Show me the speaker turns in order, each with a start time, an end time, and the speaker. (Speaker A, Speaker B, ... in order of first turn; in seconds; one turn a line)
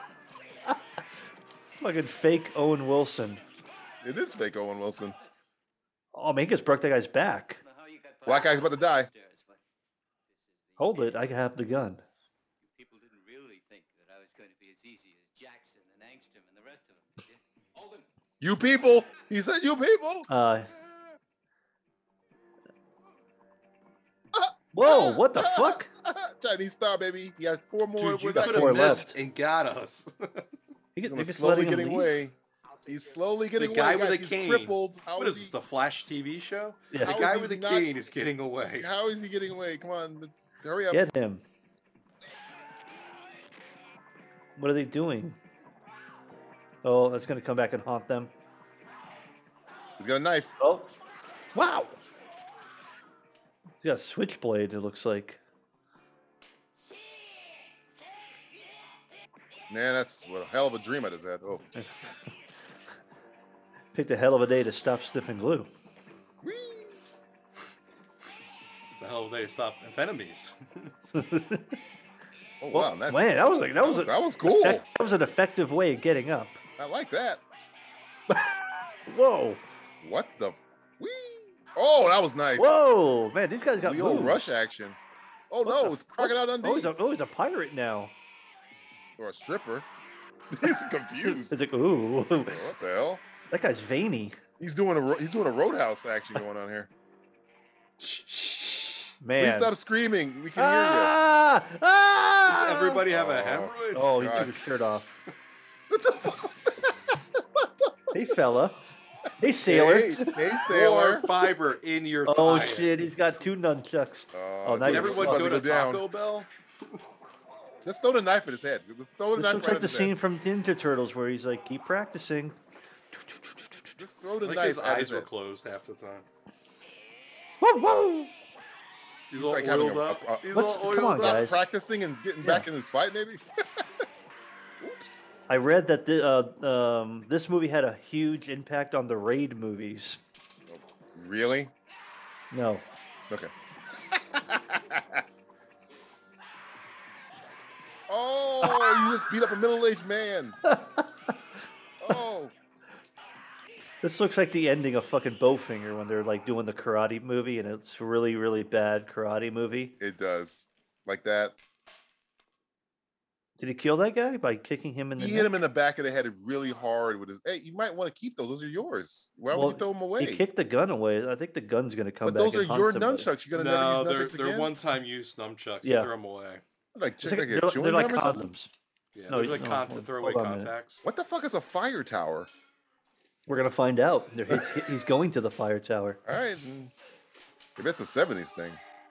Speaker A: 1.8-3.4
Speaker B: 4.0-5.2
Speaker A: 6.1-7.6
Speaker C: 7.6-9.6
Speaker B: 8.3-9.1
Speaker C: 10.3-11.3
Speaker A: 10.8-12.0
Speaker C: 12.6-18.1
Speaker B: 18.4-20.3
Speaker A: 20.3-20.7
Speaker B: 24.3-29.0
Speaker A: 24.7-25.9
Speaker D: 28.0-30.5
Speaker A: 28.4-29.2
Speaker A: 31.0-32.1
Speaker B: 31.1-32.4
Speaker C: 32.7-33.2
Speaker B: 32.9-35.5
Speaker D: 33.6-38.9
Speaker A: 36.9-37.2
Speaker B: 37.0-37.9
Speaker B: 38.8-41.0
Speaker A: 40.9-41.4
Speaker A: 44.6-45.4
Speaker A: 46.8-48.3
Speaker B: 50.0-50.5
Speaker A: 50.6-50.9
Speaker A: 51.5-52.0
Speaker A: 53.8-55.4
Speaker B: 59.7-61.7
Speaker A: 61.8-62.3
Speaker A: 63.9-65.7
Speaker B: 66.4-67.0
Speaker D: 68.9-70.9
Speaker A: 71.1-71.8
Speaker B: 72.6-74.8
Speaker A: 72.7-76.6
Speaker B: 76.8-77.4
Speaker A: 78.3-79.6
Speaker B: 80.0-82.8
Speaker A: 82.6-84.6
Speaker B: 83.8-85.0
Speaker B: 85.5-86.9
Speaker A: 85.7-88.1
Speaker B: 89.2-89.9
Speaker B: 90.5-91.6
Speaker A: 91.2-92.6
Speaker B: 92.4-93.2
Speaker A: 93.5-94.4
Speaker B: 94.6-96.9
Speaker D: 98.0-99.1
Speaker A: 99.2-99.7
Speaker B: 99.4-101.1
Speaker A: 100.6-103.0
Speaker D: 102.5-104.4
Speaker B: 103.1-104.5
Speaker A: 103.9-105.2
Speaker B: 105.9-108.2
Speaker A: 108.1-108.8
Speaker A: 109.4-110.6
Speaker B: 109.7-111.3
Speaker D: 110.6-112.9
Speaker A: 112.3-115.7
Speaker B: 114.3-116.1
Speaker D: 114.8-116.5
Speaker B: 117.8-120.1
Speaker A: 119.3-122.6
Speaker A: 123.1-123.4
Speaker B: 124.0-125.3
Speaker D: 124.4-126.2
Speaker A: 127.6-128.3
Speaker D: 129.3-131.6
Speaker B: 129.3-133.8
Speaker A: 130.5-131.6
Speaker B: 134.8-135.2
Speaker A: 135.5-140.2
Speaker B: 140.7-141.7
Speaker A: 142.5-142.8
Speaker B: 144.1-145.2
Speaker B: 148.1-150.6
Speaker A: 148.6-149.3
Speaker A: 150.6-151.3
Speaker B: 152.0-152.5
Speaker A: 154.0-160.0
Speaker B: 160.0-161.6
Speaker A: 163.6-165.6
Speaker B: 165.2-170.4
Speaker A: 169.5-173.3
Speaker B: 172.2-174.7
Speaker D: 173.5-176.6
Speaker A: 175.8-176.1
Speaker B: 176.9-178.5
Speaker A: 177.2-178.7
Speaker D: 179.2-181.0
Speaker A: 179.3-180.7
Speaker B: 181.0-182.5
Speaker A: 183.5-186.2
Speaker B: 184.5-184.8
Speaker B: 186.2-186.9
Speaker B: 187.8-188.8